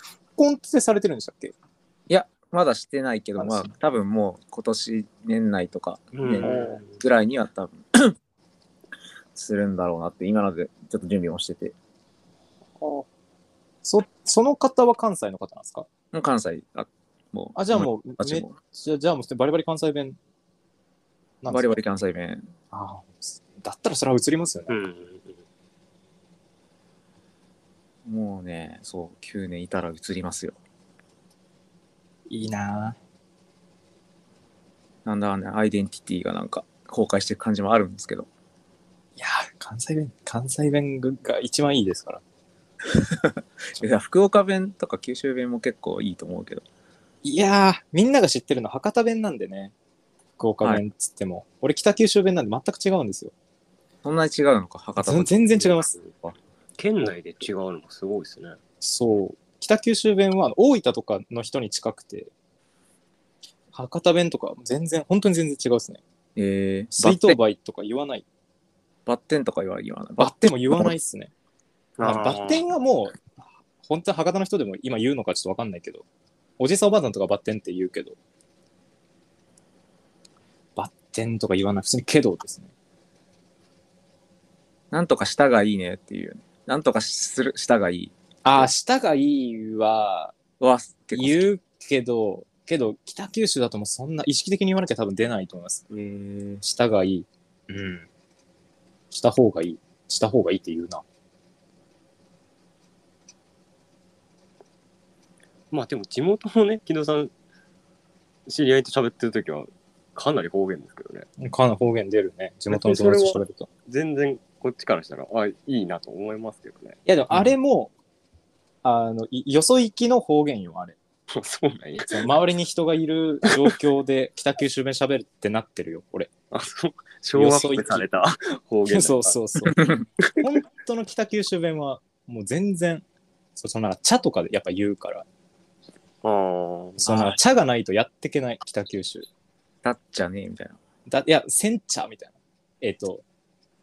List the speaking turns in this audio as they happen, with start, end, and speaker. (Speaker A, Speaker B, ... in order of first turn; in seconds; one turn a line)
Speaker A: 0.4-1.5
Speaker B: 2.1-8.2
Speaker A: 3.4-3.7
Speaker C: 6.2-7.0
Speaker B: 9.3-11.8
Speaker A: 12.8-13.1
Speaker A: 13.8-15.9
Speaker B: 16.1-18.5
Speaker A: 17.6-20.2
Speaker A: 21.4-21.8
Speaker B: 21.5-22.5
Speaker A: 22.7-24.8
Speaker C: 24.7-25.4
Speaker B: 28.1-30.6
Speaker A: 32.3-33.0
Speaker B: 35.0-38.3
Speaker A: 39.2-42.2
Speaker B: 42.9-46.6
Speaker A: 47.2-49.7
Speaker A: 50.4-53.3
Speaker B: 54.0-56.4
Speaker A: 55.0-56.0
Speaker C: 56.8-58.6
Speaker A: 58.8-62.3
Speaker A: 63.7-66.0
Speaker B: 66.4-67.4
Speaker A: 66.9-68.2
Speaker B: 69.1-70.9
Speaker A: 70.2-71.3
Speaker C: 72.0-72.7
Speaker A: 72.0-73.3
Speaker A: 73.8-76.0
Speaker A: 76.6-78.2
Speaker A: 80.8-82.7
Speaker B: 84.9-88.7
Speaker A: 88.5-90.4
Speaker B: 90.6-91.4
Speaker A: 91.1-98.1
Speaker A: 99.1-101.0
Speaker C: 105.7-107.3
Speaker C: 108.5-111.3
Speaker A: 111.4-113.7
Speaker C: 112.7-117.0
Speaker A: 117.1-117.9
Speaker A: 118.8-121.0
Speaker C: 121.3-122.3
Speaker A: 122.1-126.3
Speaker C: 126.5-130.5
Speaker A: 127.3-128.1
Speaker A: 128.9-129.8
Speaker B: 129.7-130.0
Speaker A: 130.4-133.0
Speaker A: 133.6-135.3
Speaker C: 136.2-137.4
Speaker A: 137.0-139.3
Speaker B: 139.8-140.8
Speaker A: 141.1-143.2